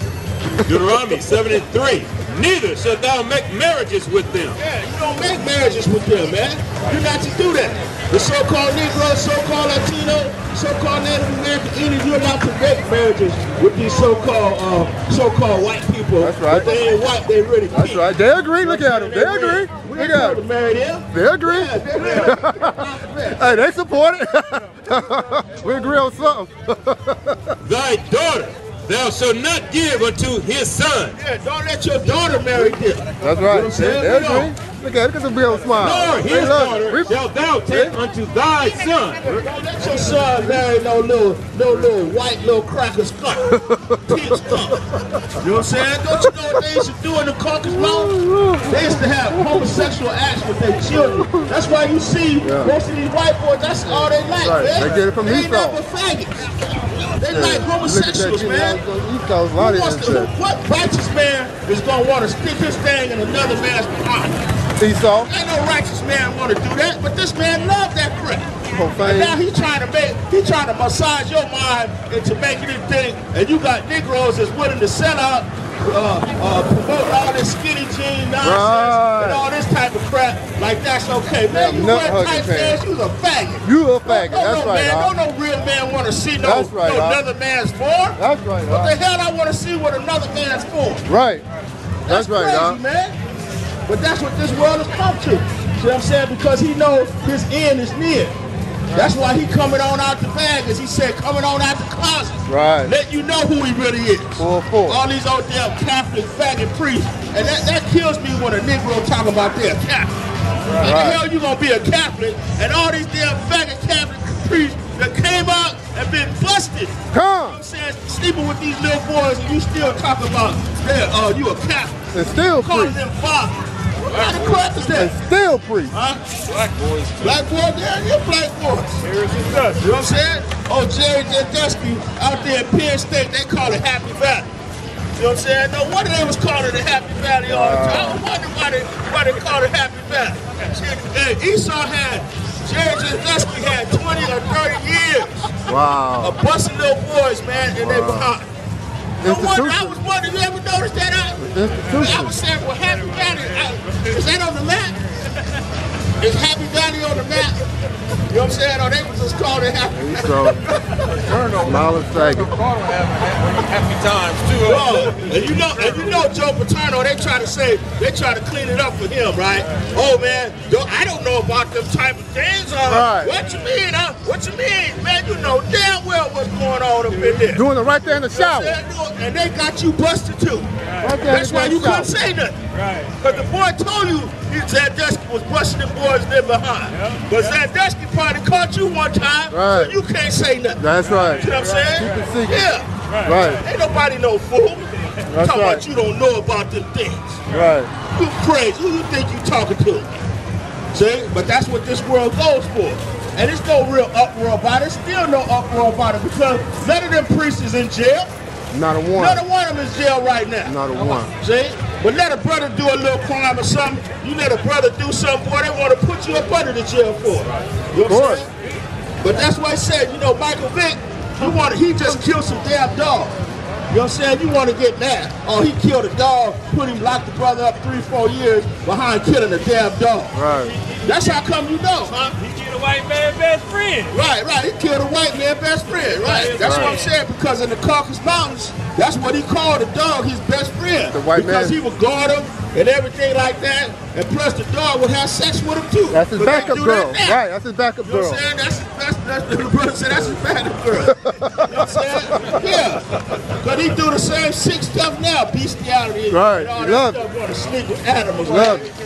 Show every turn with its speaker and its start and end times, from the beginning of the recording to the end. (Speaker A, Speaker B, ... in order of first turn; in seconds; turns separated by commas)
Speaker A: 0.6-4.6, Speaker B: 4.6-23.6, Speaker C: 16.2-16.8, Speaker C: 17.7-20.4, Speaker C: 21.1-27.6, Speaker A: 27.6-31.1, Speaker B: 31.2-34.5, Speaker C: 33.2-37.1, Speaker A: 35.8-39.2, Speaker B: 35.8-36.5, Speaker C: 37.7-38.0, Speaker B: 39.2-58.8, Speaker C: 43.6-44.8, Speaker C: 46.2-46.9, Speaker C: 47.7-49.9, Speaker C: 50.9-51.4, Speaker C: 52.4-52.7, Speaker C: 53.9-55.8, Speaker C: 57.3-60.3, Speaker B: 59.5-64.4, Speaker C: 64.8-65.3, Speaker B: 65.2-91.0, Speaker C: 68.7-69.4, Speaker C: 78.4-79.5, Speaker C: 81.5-82.8, Speaker C: 83.6-85.2, Speaker C: 86.4-87.2, Speaker C: 88.2-88.9, Speaker C: 91.1-91.4, Speaker B: 92.0-93.2, Speaker C: 92.1-92.8, Speaker B: 93.8-98.3, Speaker B: 98.9-110.1, Speaker C: 102.5-102.9, Speaker C: 104.4-105.0, Speaker B: 110.8-122.0, Speaker C: 110.8-111.2, Speaker C: 117.1-117.6, Speaker C: 122.1-123.0, Speaker B: 122.5-125.2, Speaker A: 124.1-124.8, Speaker C: 124.9-125.9, Speaker B: 125.9-126.2, Speaker A: 126.4-127.4, Speaker B: 127.2-129.0, Speaker A: 129.0-129.8, Speaker B: 129.8-134.5, Speaker B: 135.2-145.6, Speaker C: 137.5-138.2, Speaker C: 145.7-146.4, Speaker B: 146.2-148.5, Speaker C: 147.8-148.3, Speaker C: 149.2-150.0, Speaker B: 149.2-155.0, Speaker C: 151.4-152.3, Speaker B: 156.2-157.6, Speaker B: 158.3-161.0, Speaker C: 159.9-160.7, Speaker A: 161.0-165.9, Speaker C: 161.6-162.5, Speaker B: 164.6-177.6, Speaker C: 172.9-173.3, Speaker C: 177.4-178.8, Speaker B: 178.3-182.6, Speaker C: 181.0-182.1, Speaker A: 182.7-183.1, Speaker B: 183.2-190.8, Speaker C: 189.5-189.9, Speaker C: 190.8-192.7, Speaker A: 191.0-191.4, Speaker B: 191.4-197.4, Speaker C: 193.2-193.6, Speaker C: 195.3-195.8, Speaker C: 197.5-197.9, Speaker B: 198.1-200.1, Speaker B: 200.9-208.3, Speaker C: 208.7-209.4, Speaker B: 209.1-218.5, Speaker C: 210.6-211.3, Speaker C: 218.1-218.4, Speaker B: 219.2-223.3, Speaker B: 223.9-230.4, Speaker C: 230.3-230.8, Speaker B: 231.0-232.4, Speaker A: 232.4-234.1, Speaker B: 234.1-247.4, Speaker A: 236.2-237.1, Speaker C: 236.6-237.0, Speaker C: 241.1-241.8, Speaker C: 246.1-248.4, Speaker B: 248.0-258.9, Speaker C: 251.0-252.5, Speaker C: 256.3-257.2, Speaker C: 258.4-258.8